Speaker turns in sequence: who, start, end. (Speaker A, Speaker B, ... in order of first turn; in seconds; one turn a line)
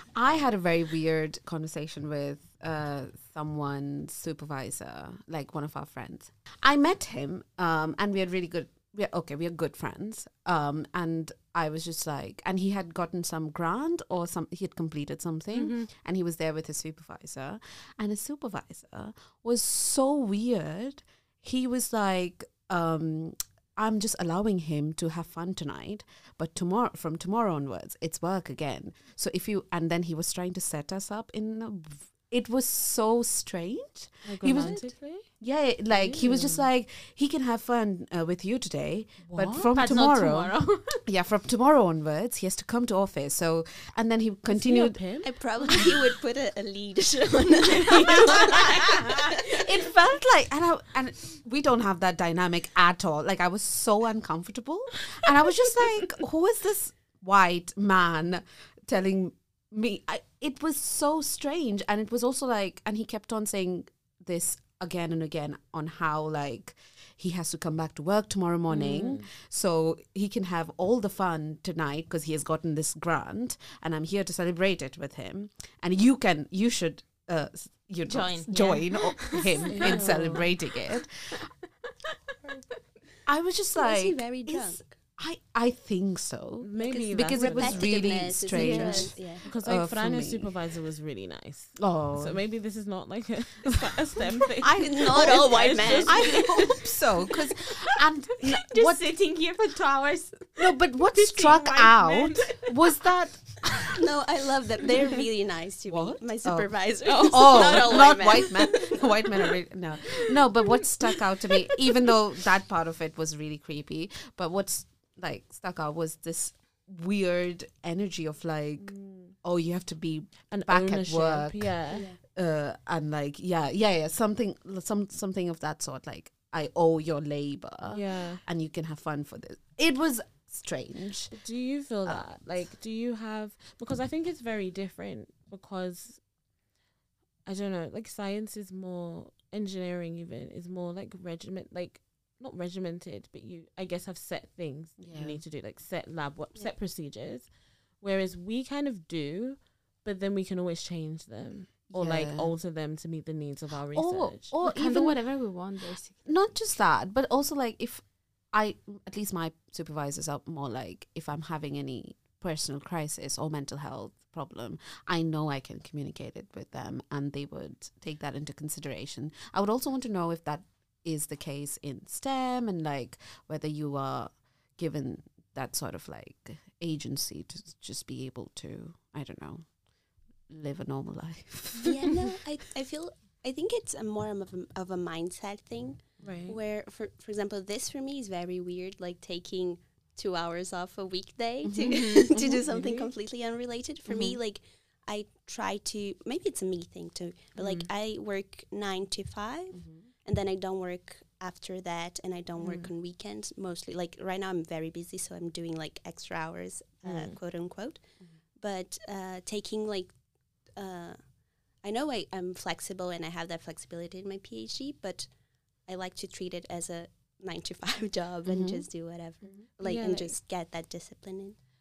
Speaker A: 0.1-45.0
Speaker B: 15.5-15.9
Speaker C: 34.2-35.3
Speaker C: 35.9-36.6
Speaker C: 39.2-39.9
Speaker B: 39.7-41.0
Speaker C: 44.5-46.1
Speaker D: 45.2-49.7
Speaker C: 47.8-48.6
Speaker A: 49.3-81.5
Speaker C: 68.7-69.2
Speaker B: 78.1-80.1
Speaker C: 79.7-80.5
Speaker A: 83.2-90.5
Speaker D: 83.8-84.9
Speaker C: 86.6-88.3
Speaker D: 86.8-89.5
Speaker B: 88.5-89.2
Speaker C: 89.4-96.5
Speaker A: 91.8-92.4
Speaker A: 94.6-99.0
Speaker D: 94.8-96.4
Speaker B: 96.2-97.0
Speaker B: 98.5-102.9
Speaker A: 100.6-103.9
Speaker D: 103.8-109.1
Speaker A: 105.9-121.7
Speaker C: 107.3-108.1
Speaker B: 108.3-108.7
Speaker C: 120.5-122.1
Speaker D: 121.9-122.2
Speaker A: 122.3-131.3
Speaker C: 127.9-128.4
Speaker C: 131.3-136.2
Speaker C: 137.4-147.5
Speaker A: 145.0-145.4
Speaker C: 148.0-154.5
Speaker A: 151.9-152.5
Speaker A: 153.9-155.2
Speaker B: 154.6-156.6
Speaker A: 156.2-179.7
Speaker A: 180.5-182.3
Speaker D: 181.8-208.0
Speaker C: 186.2-186.6
Speaker A: 191.6-192.6
Speaker B: 191.8-192.3
Speaker C: 192.7-193.1
Speaker A: 194.1-194.4
Speaker A: 199.7-200.0
Speaker C: 207.1-207.3
Speaker D: 208.6-210.1
Speaker D: 210.7-211.2
Speaker D: 211.8-215.3
Speaker D: 215.8-221.6
Speaker A: 218.4-218.8
Speaker C: 219.8-220.3